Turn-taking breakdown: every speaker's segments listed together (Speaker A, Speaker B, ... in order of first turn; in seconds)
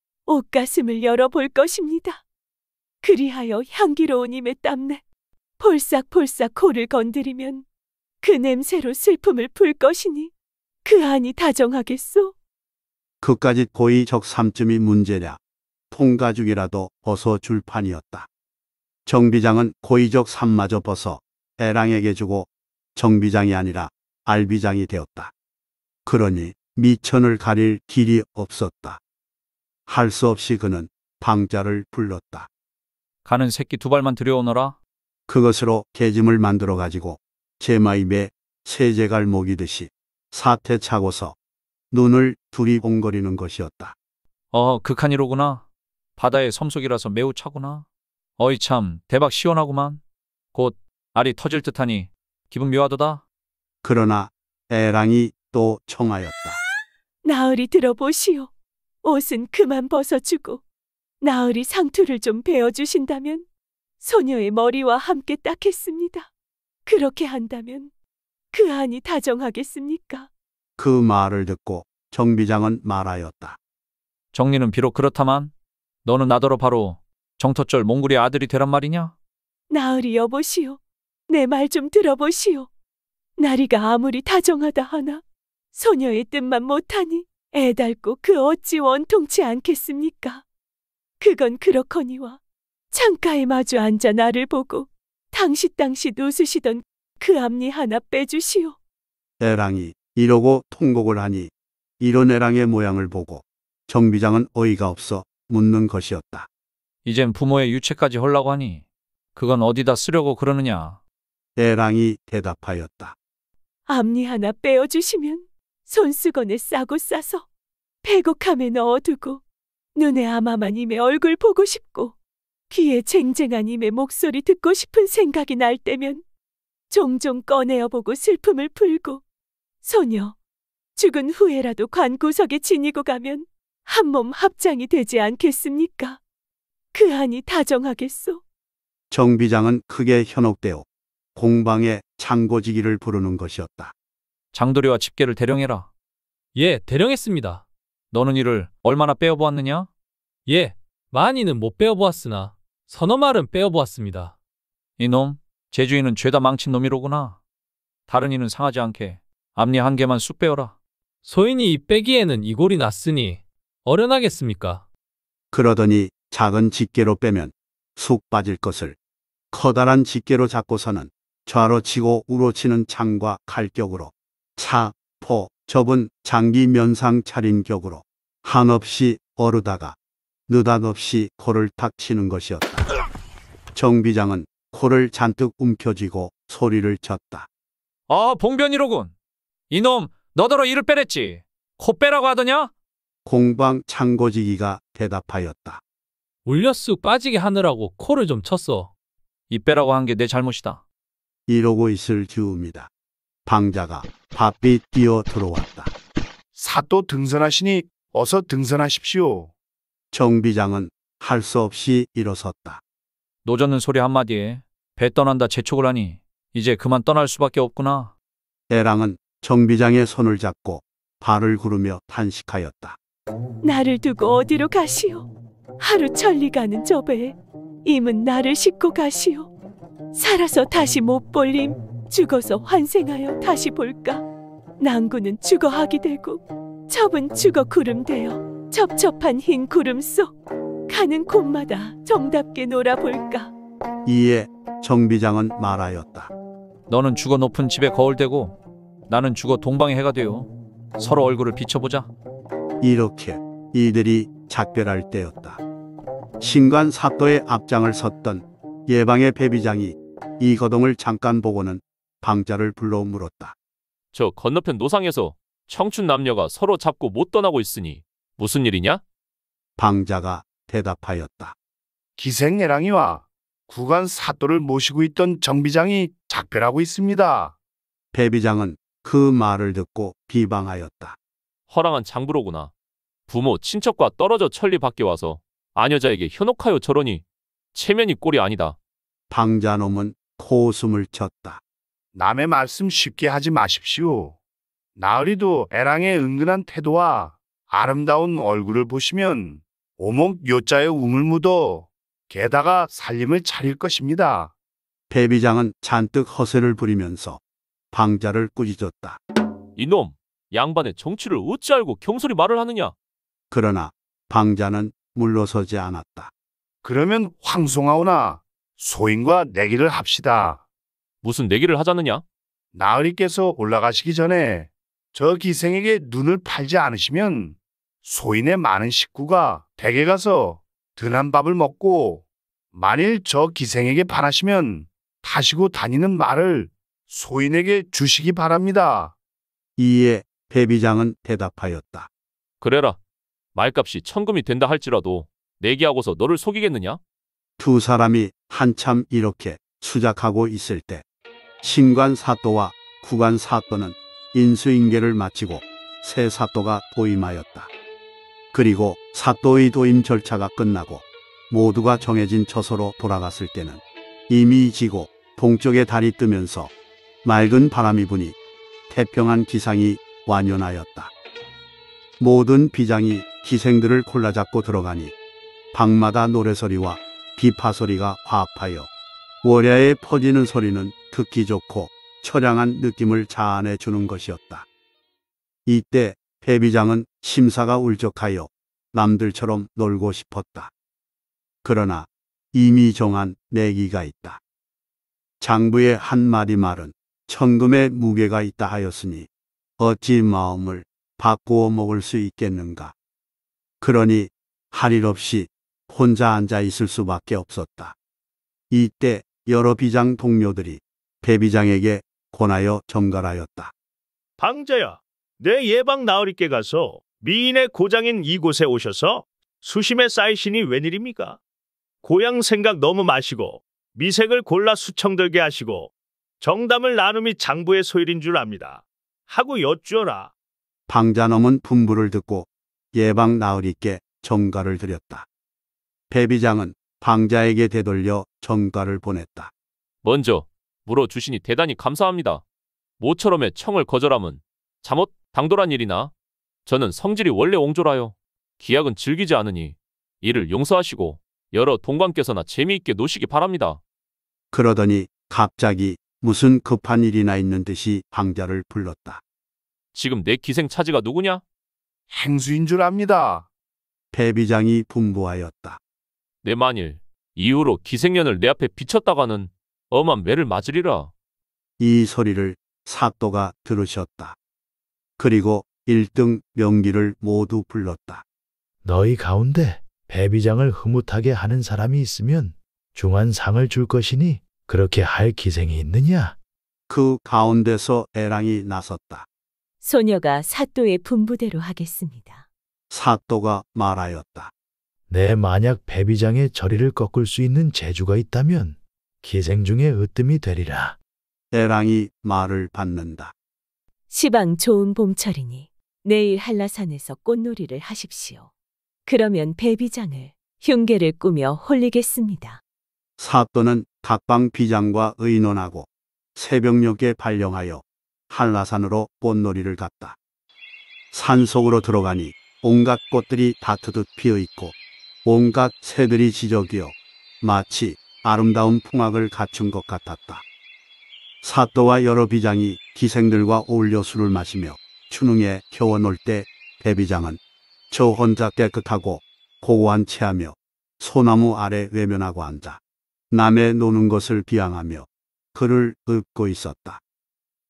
Speaker A: 0.3-2.2, 3.0-5.0, 5.6-7.7, 8.2-10.3, 10.8-12.3, 57.2-58.5, 59.0-60.6, 61.2-63.5, 64.0-66.3, 66.9-67.9, 68.5-70.3, 79.7-82.7, 83.4-85.2, 85.7-90.4, 91.2-92.4, 92.9-98.8, 113.9-117.5, 118.0-119.4, 120.0-122.2, 122.7-126.2, 126.9-129.2, 129.8-130.3, 131.0-136.2, 136.9-138.4, 223.6-225.3, 225.8-229.5, 230.2-234.2, 234.8-240.3, 240.9-243.5, 489.8-492.4, 504.1-508.5, 509.1-512.6
Speaker B: 13.2-15.4, 15.9-18.3, 19.1-25.3, 26.1-29.0, 29.9-32.5, 35.3-41.4, 41.9-44.0, 53.8-56.6, 70.8-73.6, 99.4-106.5, 111.6-113.2, 139.1-143.9, 165.5-169.0, 169.5-180.0, 180.5-182.8, 183.7-187.5, 193.3-195.8, 201.5-202.9, 203.5-205.9, 210.1-212.8, 218.7-223.0, 244.1-246.3, 252.8-255.6, 256.4-263.6, 269.8-271.6, 278.1-281.2, 289.3-291.6, 305.1-307.4, 307.9-309.2, 313.5-316.3, 339.8-342.1, 347.6-351.1, 351.6-357.7, 358.5-366.7, 367.2-368.4, 368.9-371.1, 372.2-375.1, 375.7-378.9, 379.4-384.7, 385.7-390.7, 391.6-394.4, 395.4-402.9, 403.8-407.9, 408.7-413.7, 430.9-435.3, 436.1-439.5, 454.5-459.2, 464.1-465.8, 471.8-474.4, 475.2-478.2, 486.9-489.3, 492.9-494.5, 501.5-503.3, 513.2-520.2, 521.1-530.4, 531.4-537.4, 537.9-547.0
Speaker C: 33.2-34.8, 44.5-45.6, 46.2-47.9, 48.4-50.0, 50.5-53.2, 74.3-75.5, 76.0-79.1, 107.0-108.8, 109.3-111.0, 144.5-145.9, 148.1-149.9, 155.0-157.4, 158.1-160.8, 188.1-189.1, 189.7-192.7, 199.5-200.8, 213.4-218.1, 246.9-252.1
Speaker D: 146.6-147.7, 150.5-154.4, 161.2-164.8, 196.4-198.9
Speaker E: 206.6-209.5, 272.2-277.6, 292.1-294.4, 295.0-304.5, 316.8-320.6, 322.7-339.1, 462.1-463.5
Speaker F: 264.1-269.0, 281.7-282.7, 283.3-287.2, 287.8-288.8, 309.8-312.9, 321.2-322.2, 342.6-343.0, 343.6-347.0, 440.0-442.4, 443.0-446.1, 446.7-453.8, 459.9-461.4, 466.4-471.1
Speaker G: 414.4-421.4, 422.0-430.3
Speaker H: 478.8-486.4, 495.1-501.0